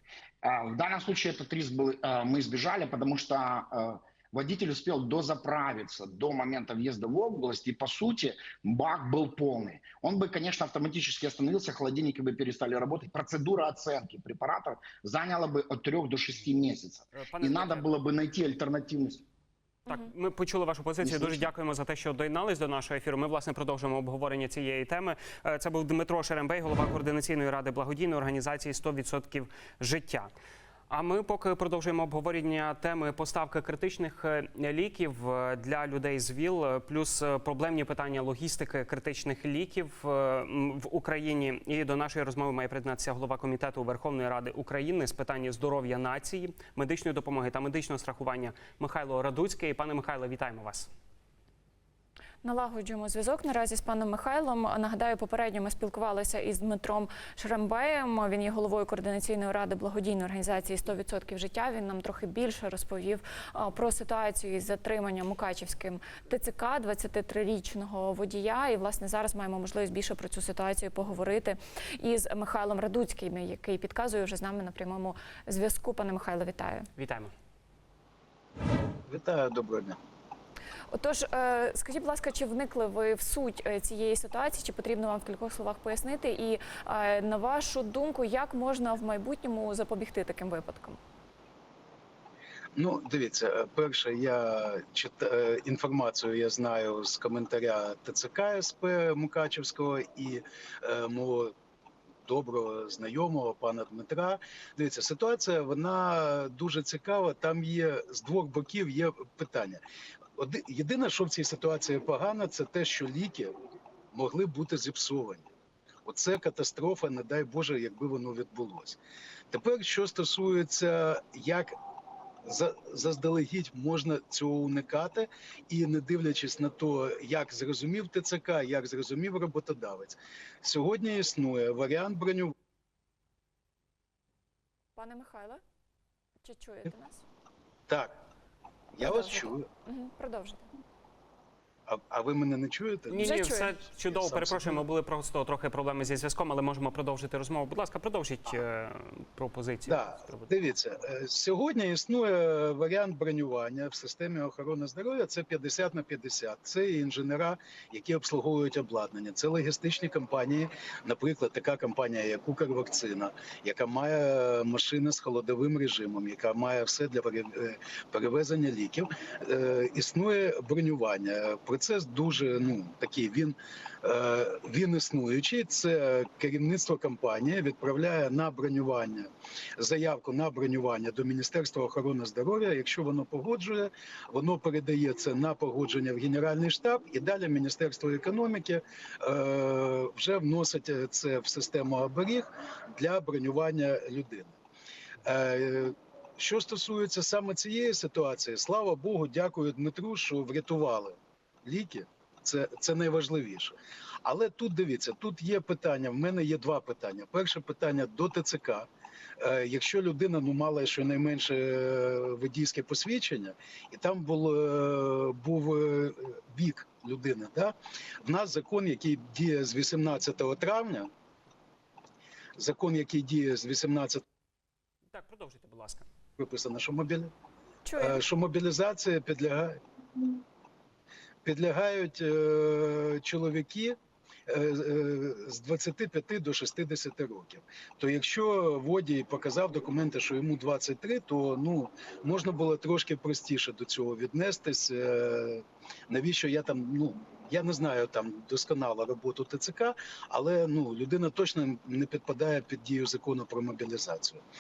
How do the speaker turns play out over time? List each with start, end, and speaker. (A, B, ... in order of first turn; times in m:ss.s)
0:00.4-0:19.2 A
0:17.1-0:17.9 B
0:19.9-0:30.3 B
0:21.0-0:21.5 A
0:30.9-0:50.9 B
0:52.4-1:16.9 C
1:17.0-1:17.3 B
1:19.1-1:20.0 D
1:20.9-1:31.0 C
1:32.8-1:41.5 D
1:42.3-1:49.8 D
1:50.4-1:53.5 D
1:54.1-1:55.5 D
1:56.0-1:59.0 D
1:59.5-2:01.7 D
2:02.4-2:12.5 D
2:15.0-2:15.6 C
2:16.4-2:17.2 C
2:17.9-2:18.1 D
2:19.0-2:19.6 D
2:19.0-2:20.6 C
2:21.9-2:23.3 D
2:23.1-2:30.5 B
2:23.2-2:23.8 C
2:24.1-2:24.8 D
2:29.9-3:14.6 D
3:15.2-3:28.9 D
3:29.4-3:41.1 D
3:42.6-3:44.2 D
3:45.1-3:46.1 B
3:46.4-3:47.3 D
3:47.8-3:48.2 C
3:48.0-3:49.8 D
3:51.4-3:54.0 D
3:54.5-4:14.4 D